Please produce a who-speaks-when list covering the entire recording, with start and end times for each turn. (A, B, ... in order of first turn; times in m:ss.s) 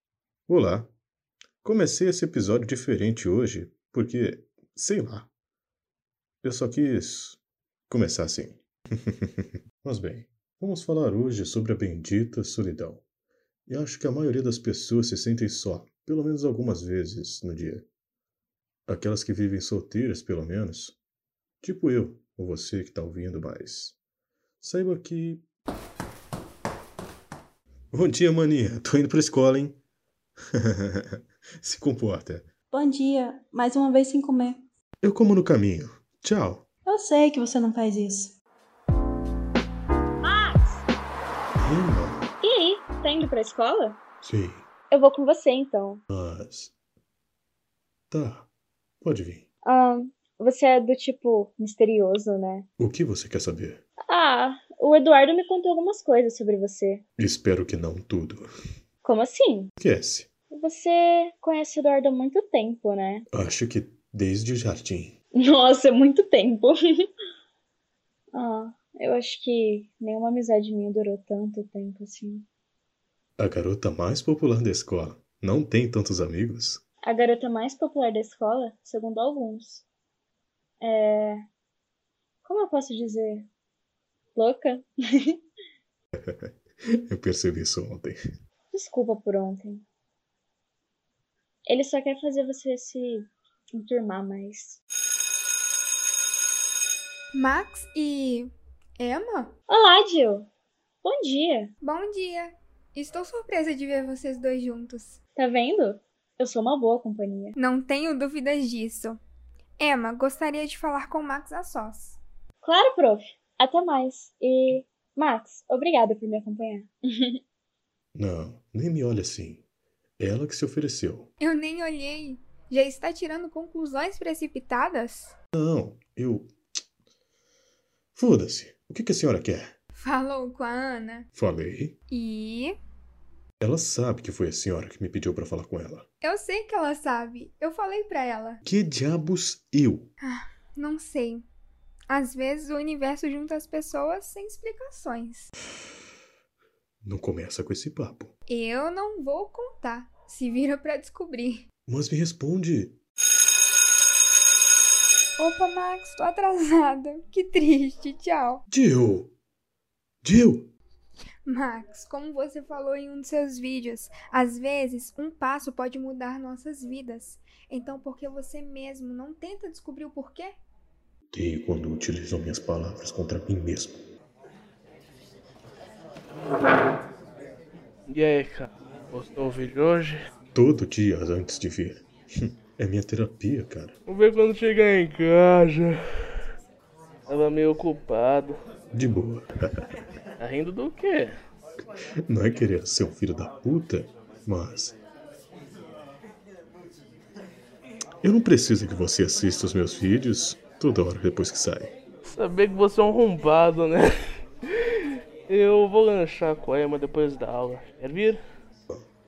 0:00.5-0:00.9 A
0:01.6-0:05.3 A
0:06.4-0:13.0 A
0:13.7-0:17.9 A
0:18.9-0:21.0 A
0:21.6-0:24.0 A
0:24.6-0:25.4 A
0:27.9-0:29.8 A
0:30.6-0:32.5 A
0:32.7-0:34.6 B
0:35.0-0:36.6 A
0:36.8-0:38.3 B
0:40.2-0:40.8 C
0:41.6-0:42.3 A
0:42.4-0:44.0 C
0:44.2-0:44.7 A
0:44.9-0:46.0 C
0:46.1-0:46.7 A
0:48.1-0:48.5 A
0:49.0-0:49.4 A
0:49.6-0:52.7 C
0:52.8-0:53.8 A
0:54.1-0:57.0 C
0:57.2-0:58.5 A
0:59.0-0:59.7 C
0:59.8-1:00.3 A
1:00.5-1:03.2 C
1:03.3-1:05.2 A
1:05.4-1:06.8 C
1:08.3-1:12.4 C
1:13.4-1:16.8 A
1:17.0-1:19.8 C
1:20.8-1:21.4 C
1:22.4-1:23.5 C
1:24.4-1:25.4 C
1:26.2-1:26.5 A
1:27.1-1:28.2 A
1:28.7-1:29.8 C
1:31.6-1:34.8 C
1:37.3-1:39.5 D
1:39.7-1:40.5 C
1:41.0-1:41.7 C
1:41.8-1:45.2 D
1:45.4-1:47.6 C
1:47.6-1:49.2 D
1:49.8-1:52.2 D
1:52.6-1:57.4 C
1:58.1-1:59.6 A
2:00.2-2:01.3 A
2:01.4-2:05.3 D
2:05.5-2:06.5 A
2:08.1-2:09.7 A
2:09.9-2:11.3 D
2:11.3-2:12.0 A
2:12.1-2:12.8 D
2:13.6-2:16.1 A
2:16.2-2:18.6 D
2:18.6-2:20.1 A
2:20.2-2:21.4 D
2:22.1-2:25.5 D
2:27.0-2:28.3 A
2:28.5-2:31.6 D
2:31.9-2:33.0 A
2:35.4-2:38.6 D
2:38.7-2:39.3 A
2:40.2-2:40.7 A
2:41.4-2:50.6 D
2:51.3-2:54.0 A
2:58.1-3:00.2 E
3:00.5-3:03.9 A
3:04.1-3:06.0 E
3:07.3-3:08.6 E
3:08.9-3:09.9 A
3:10.4-3:11.3 E
3:12.3-3:15.0 A
3:18.2-3:22.0 A
3:22.3-3:24.0 E
3:24.7-3:28.4 E